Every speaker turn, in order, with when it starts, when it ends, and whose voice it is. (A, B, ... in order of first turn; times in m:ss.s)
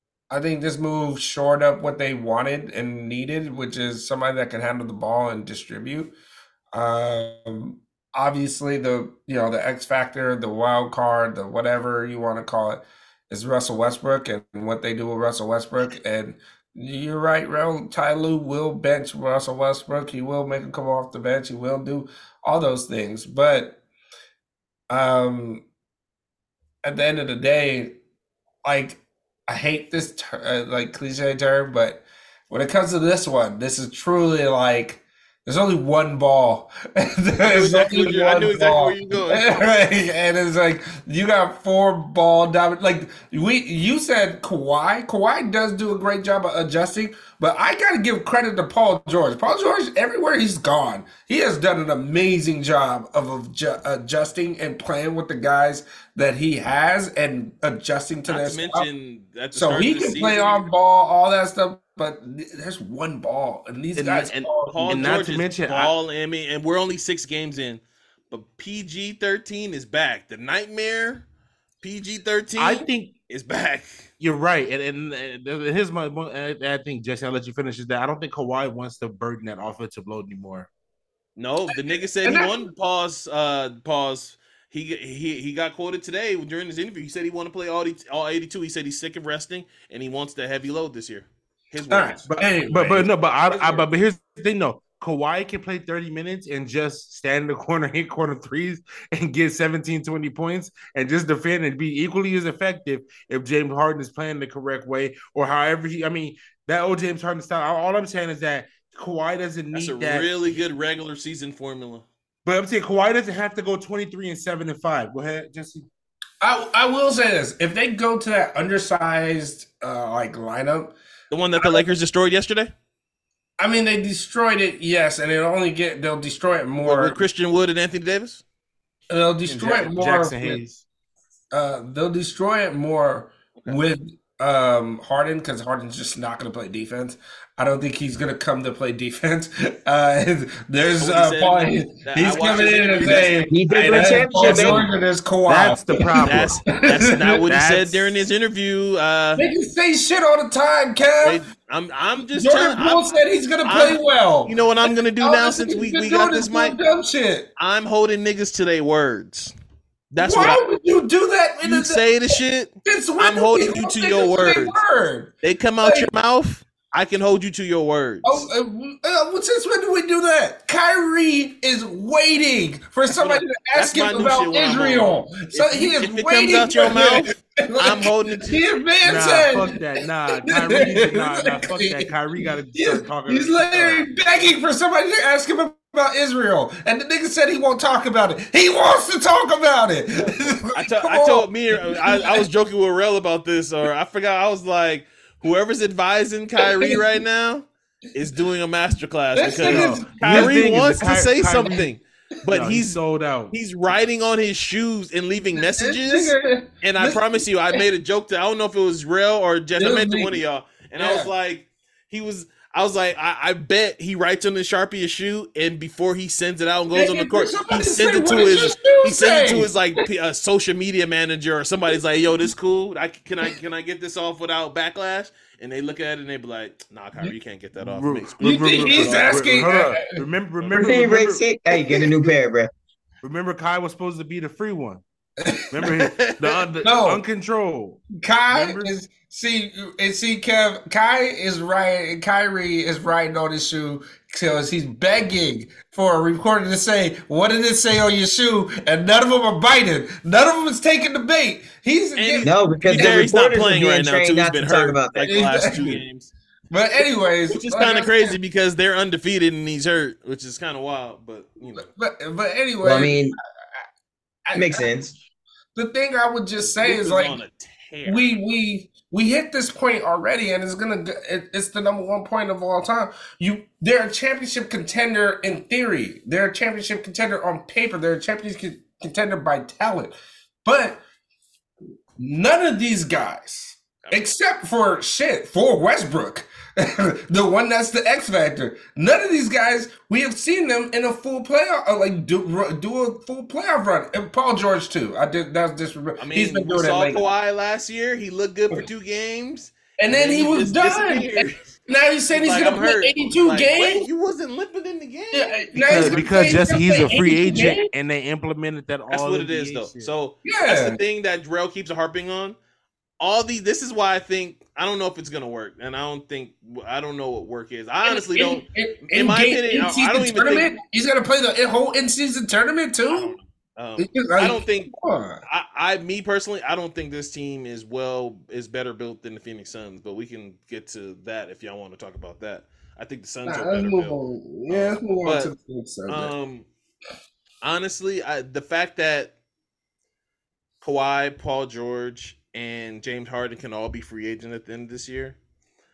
0:00.3-0:06.1 A
0:06.7-0:23.8 A
0:24.9-0:25.6 A
0:26.8-0:28.0 A
0:28.6-0:58.9 A
0:37.4-0:39.5 B
0:58.3-1:00.7 B
0:59.5-1:05.2 A
1:04.0-1:05.9 C
1:04.7-1:11.2 B
1:11.8-1:14.1 B
1:12.6-1:13.1 C
1:14.2-1:20.7 C
1:21.4-1:33.9 B
1:22.2-1:22.7 A
1:31.9-1:33.1 A
1:32.3-1:50.3 C
1:49.7-1:52.1 B
1:52.4-1:55.9 C
1:56.4-2:00.9 A
2:01.3-2:02.7 B
2:01.6-2:01.9 A
2:03.6-2:07.2 A
2:06.8-2:08.4 B
2:09.1-2:10.6 A
2:09.5-2:10.8 C
2:11.5-2:27.5 A
2:21.0-2:24.5 B
2:23.5-2:24.9 D
2:24.4-2:24.8 C
2:25.5-2:26.6 C
2:26.2-2:29.5 B
2:27.5-2:28.1 C
2:29.4-2:31.4 A
2:31.2-2:36.8 B
2:32.3-2:34.6 A
2:35.2-2:37.5 A
2:37.6-2:39.6 B
2:40.1-2:40.6 B
2:40.2-2:42.1 A
2:41.6-2:44.8 B
2:42.8-2:46.1 A
2:45.4-2:48.5 B
2:48.2-2:59.7 A
2:53.1-2:58.6 B
2:59.0-3:04.1 C
3:00.4-3:12.4 A
3:10.7-3:23.0 B
3:16.6-3:17.0 A
3:19.4-3:21.0 A
3:19.6-3:21.9 C
3:22.5-3:23.5 C
3:23.5-3:49.5 B
3:25.6-3:27.3 A
3:29.8-3:30.4 A
3:31.0-3:31.3 A
3:36.9-3:39.8 A
3:47.8-3:51.5 C
3:48.4-3:50.1 A
3:50.6-3:50.9 B
3:50.7-3:52.7 D
3:53.2-3:55.0 C
3:55.4-3:56.0 A
3:55.7-3:58.9 C
3:55.8-3:56.6 B
3:56.8-3:57.2 A
3:58.2-4:13.3 A
4:12.2-4:16.3 B
4:12.4-4:15.5 D
4:15.3-4:16.0 A
4:16.7-4:18.4 A
4:17.5-4:21.9 B
4:21.9-4:23.4 A
4:22.8-4:23.4 D
4:24.5-4:25.1 A
4:24.5-4:25.1 D
4:25.8-4:27.4 A
4:26.6-4:28.3 B
4:28.1-4:40.1 A
4:40.6-4:41.0 A
4:42.2-4:57.3 A
4:44.0-4:44.3 B
4:56.2-5:01.7 B
5:00.0-5:04.1 A
5:02.3-5:06.3 B
5:05.3-5:07.9 A
5:05.8-5:10.1 C
5:09.1-5:12.6 B
5:10.4-5:11.0 A
5:13.2-5:20.7 B
5:18.0-5:23.4 A
5:23.1-5:24.9 B
5:24.0-5:25.4 A
5:25.5-5:35.5 B
5:33.5-5:36.3 A
5:36.1-5:36.7 B
5:37.6-5:39.3 B
5:40.8-5:45.4 B